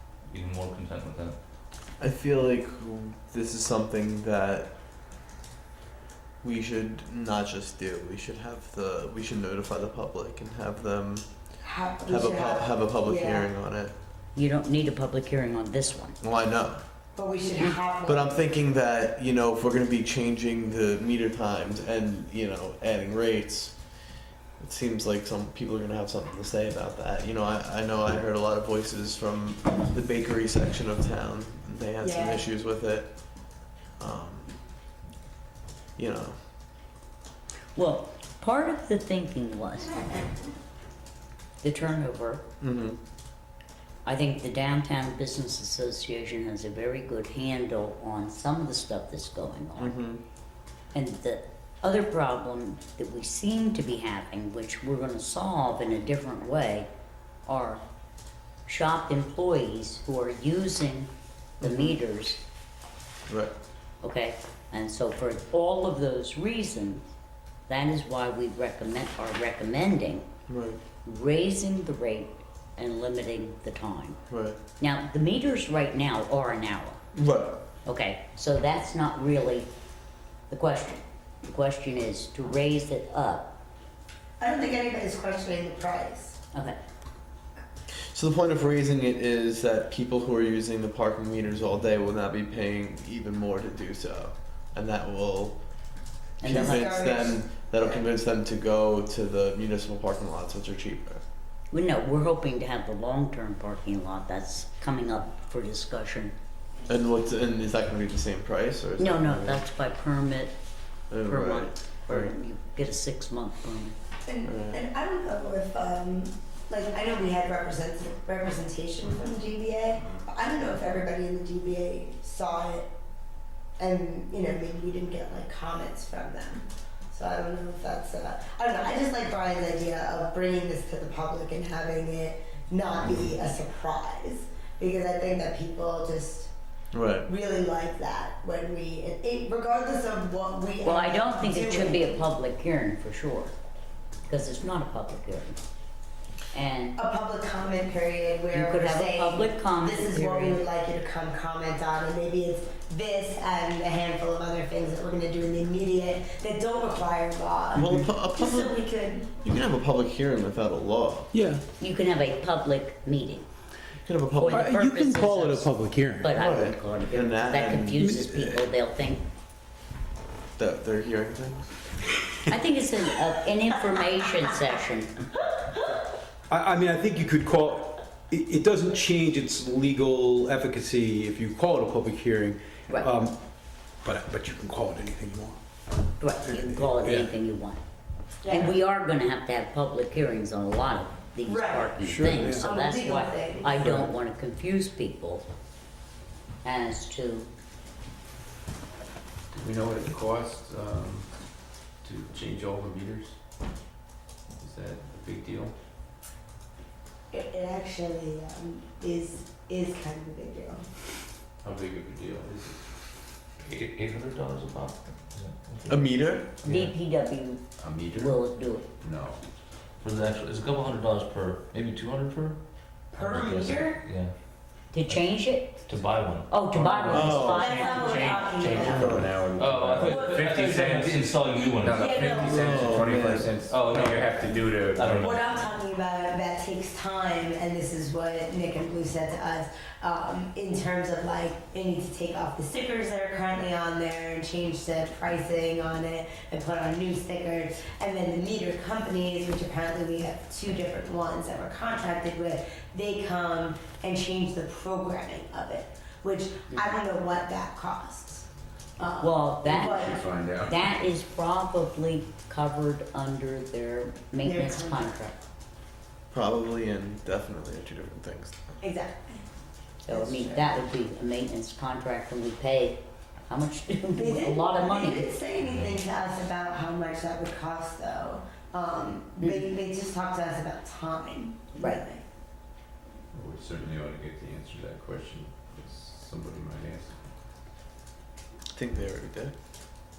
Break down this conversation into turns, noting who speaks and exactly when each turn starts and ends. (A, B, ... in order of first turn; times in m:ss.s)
0:00.3-0:01.4 A
0:02.0-0:04.7 B
0:06.4-0:11.3 B
0:11.6-0:13.5 C
0:12.1-0:13.9 B
0:14.4-0:16.2 D
0:16.2-0:16.8 B
0:17.2-0:18.4 C
0:18.0-0:23.8 B
0:24.6-0:33.2 B
0:32.0-0:32.4 C
0:34.0-0:34.6 B
0:36.0-0:36.4 B
0:37.8-0:40.0 D
0:41.6-0:42.4 D
0:42.6-0:43.0 B
0:44.0-0:50.0 D
0:49.8-0:50.2 B
0:50.9-0:56.9 D
0:57.5-0:57.8 D
0:58.7-1:01.1 D
1:01.6-1:02.0 B
1:01.6-1:02.4 D
1:04.0-1:07.0 D
1:07.7-1:10.3 D
1:10.5-1:10.8 B
1:11.0-1:14.2 D
1:14.3-1:14.6 B
1:14.8-1:17.0 D
1:17.1-1:17.6 B
1:17.9-1:19.7 D
1:20.5-1:23.5 D
1:24.4-1:26.4 C
1:28.1-1:35.6 B
1:36.4-1:36.9 D
1:36.4-1:41.2 B
1:36.4-1:38.0 C
1:41.7-1:46.3 D
1:46.9-1:49.6 B
1:49.0-1:50.6 D
1:51.1-1:52.3 B
1:51.2-1:54.0 D
1:54.2-2:02.9 C
1:54.4-1:54.8 B
2:03.8-2:16.5 C
2:16.9-2:17.3 B
2:17.2-2:22.2 C
2:20.8-2:23.5 D
2:24.3-2:25.6 D
2:26.5-2:27.0 D
2:27.0-2:39.3 C
2:28.5-2:30.6 D
2:37.7-2:38.8 B
2:39.4-2:41.3 B
2:41.3-2:41.6 E
2:41.8-2:43.5 D
2:44.0-2:44.7 B
2:44.4-2:49.2 D
2:44.5-2:46.3 E
2:46.3-2:48.6 B
2:48.0-2:48.3 E
2:50.6-2:52.0 B
2:52.5-2:55.1 D
2:56.5-3:03.4 E
3:04.0-3:05.6 E
3:06.2-3:07.8 D
3:06.5-3:07.3 E
3:08.4-3:08.8 C
3:08.5-3:15.5 D
3:11.4-3:12.0 C
3:12.0-3:12.7 E
3:12.5-3:14.0 C
3:16.6-3:17.5 D
3:19.5-3:21.3 F
3:22.0-3:23.4 F
3:24.6-3:25.7 F
3:27.3-3:30.9 C
3:31.6-3:32.8 F
3:33.6-3:36.1 A
3:35.9-3:36.5 B
3:36.6-3:36.9 A
3:36.6-3:38.9 D
3:37.8-3:38.4 F
3:39.0-3:39.4 F
3:40.0-3:42.6 A
3:43.1-3:44.4 A
3:43.1-3:44.0 C
3:44.9-3:45.8 D
3:45.0-3:47.4 A
3:46.5-3:49.1 D
3:46.9-3:55.6 F
3:47.1-3:47.7 B
3:47.4-3:49.3 C
3:48.7-3:49.3 B
3:49.5-3:52.5 A
3:50.0-3:50.5 C
3:51.9-3:53.0 C
3:52.4-3:53.6 B
3:53.7-3:55.6 A
3:55.2-4:18.5 C
4:19.0-4:20.2 C
4:19.2-4:25.4 D
4:19.6-4:20.9 F
4:24.4-4:25.1 C
4:26.3-4:28.8 B
4:28.8-4:29.4 C
4:30.1-4:35.3 D
4:30.1-4:30.8 C
4:34.1-4:42.2 C
4:39.4-4:39.7 D
4:41.8-4:42.0 D
4:43.3-4:47.2 F
4:48.8-4:49.5 B